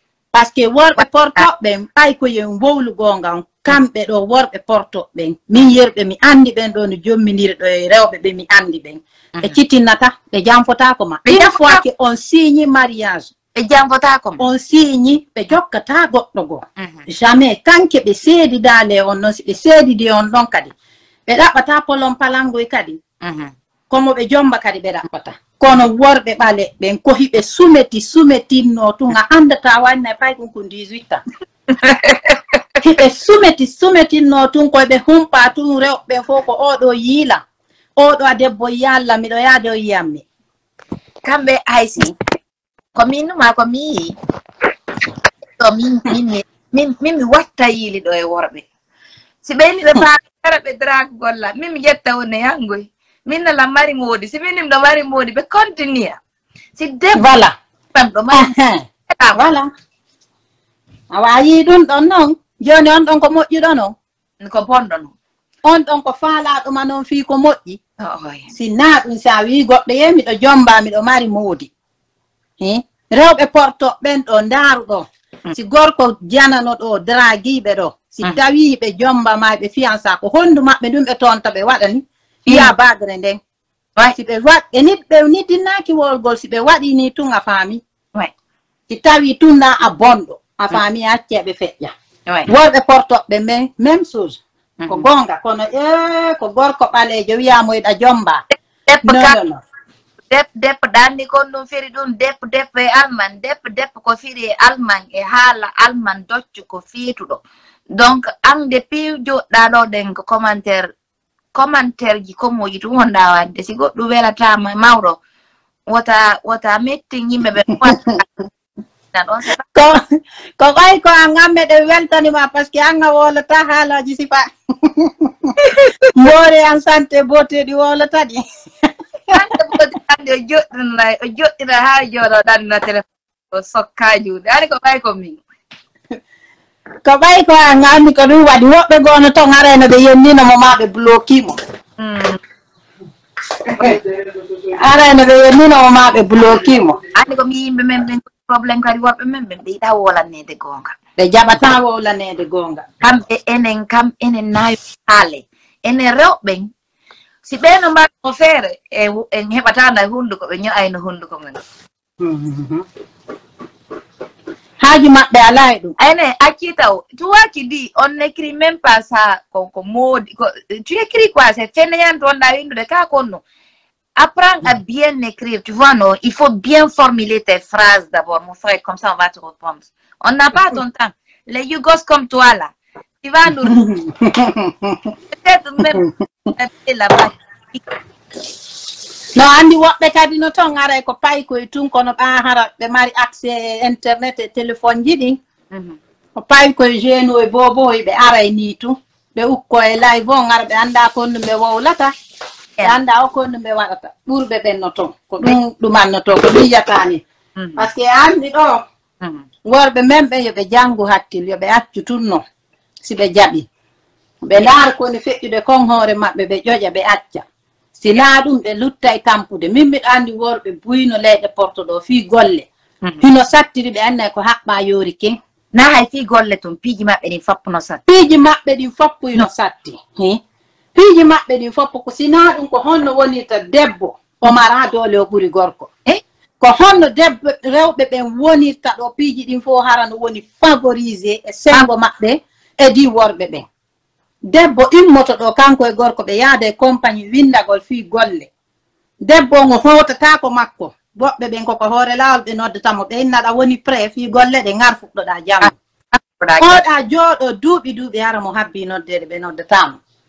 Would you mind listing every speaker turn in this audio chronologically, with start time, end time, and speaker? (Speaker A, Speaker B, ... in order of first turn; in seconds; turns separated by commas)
Speaker A: 0.3-13.3, Speaker B: 11.2-11.8, Speaker B: 13.5-14.4, Speaker A: 14.4-20.7, Speaker B: 16.8-17.0, Speaker A: 21.3-23.0, Speaker B: 23.2-23.5, Speaker A: 23.9-31.2, Speaker B: 31.7-32.6, Speaker A: 32.8-37.4, Speaker A: 38.0-40.2, Speaker B: 41.2-42.1, Speaker B: 42.9-44.1, Speaker B: 45.6-48.6, Speaker B: 49.4-56.2, Speaker B: 56.8-57.3, Speaker A: 57.1-57.5, Speaker B: 57.9-58.5, Speaker A: 58.3-59.7, Speaker B: 59.1-59.4, Speaker A: 61.1-63.9, Speaker B: 64.4-65.1, Speaker A: 65.6-67.8, Speaker B: 68.0-68.5, Speaker A: 68.5-71.7, Speaker A: 72.6-83.4, Speaker A: 84.1-87.8, Speaker A: 88.9-91.9, Speaker A: 92.5-98.4, Speaker B: 94.8-95.1, Speaker B: 98.8-99.4, Speaker A: 99.0-99.6, Speaker B: 100.3-107.4, Speaker B: 107.9-110.9, Speaker B: 111.5-115.2, Speaker B: 115.9-118.2, Speaker A: 117.8-118.2, Speaker B: 119.1-120.0, Speaker A: 119.7-120.0, Speaker A: 120.6-125.5, Speaker B: 125.6-126.1, Speaker A: 126.1-129.4, Speaker B: 129.3-135.4, Speaker A: 137.0-141.6, Speaker B: 142.0-142.4, Speaker A: 143.6-144.0, Speaker A: 144.7-147.0, Speaker B: 147.1-150.9, Speaker A: 151.2-152.8, Speaker B: 153.0-156.7, Speaker B: 157.4-161.6, Speaker A: 162.2-162.8, Speaker A: 164.8-165.9, Speaker B: 166.0-173.4, Speaker B: 174.2-183.8, Speaker A: 183.6-185.1, Speaker B: 185.3-187.8, Speaker A: 189.3-195.4, Speaker B: 195.7-196.0, Speaker A: 196.3-202.1, Speaker A: 202.8-207.2, Speaker B: 207.6-207.8, Speaker A: 207.8-208.8, Speaker A: 209.6-212.4, Speaker A: 213.0-213.7, Speaker A: 214.4-217.4, Speaker A: 218.0-222.7, Speaker A: 223.2-225.4, Speaker B: 225.7-228.0, Speaker A: 228.1-230.4, Speaker A: 230.9-235.9, Speaker A: 236.6-243.7, Speaker A: 244.5-248.5, Speaker A: 249.2-255.7, Speaker B: 255.6-256.8, Speaker A: 256.6-260.0